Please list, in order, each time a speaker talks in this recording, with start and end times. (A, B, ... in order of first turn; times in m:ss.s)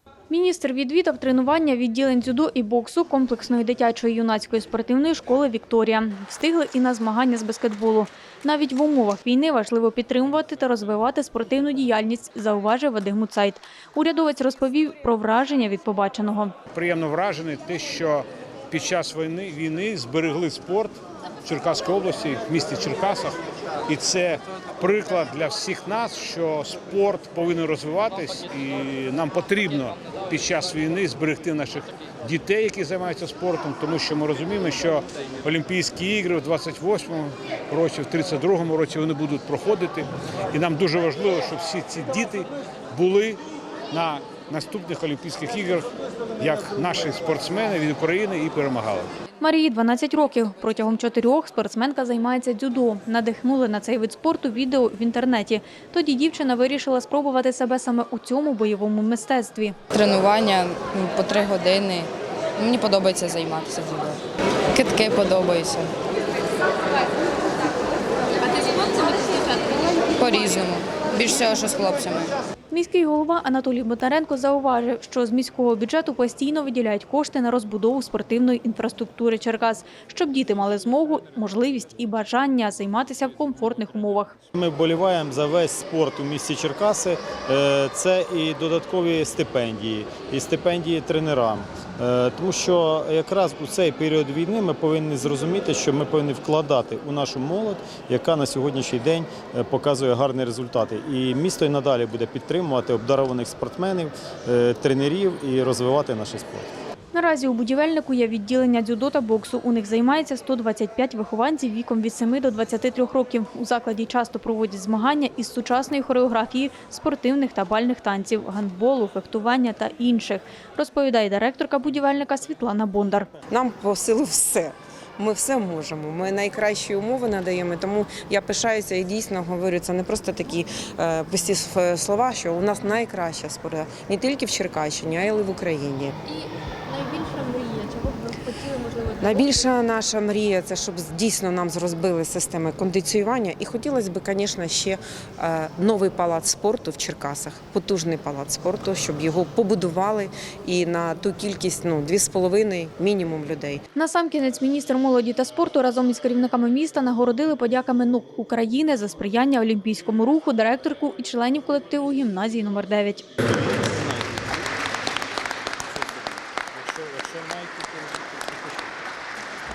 0:00.3-0:16.5 A
0:16.7-0:49.1 B
0:49.4-0:59.8 A
0:59.9-1:04.2 C
1:04.7-1:05.9 C
1:10.1-1:12.3 C
1:12.7-1:24.3 A
1:24.5-1:46.7 D
1:47.1-2:03.3 A
2:03.5-2:16.2 E
2:16.3-2:19.7 F
2:19.2-2:33.8 E
2:33.9-2:43.3 A
2:43.7-2:44.5 D
2:45.9-2:49.0 D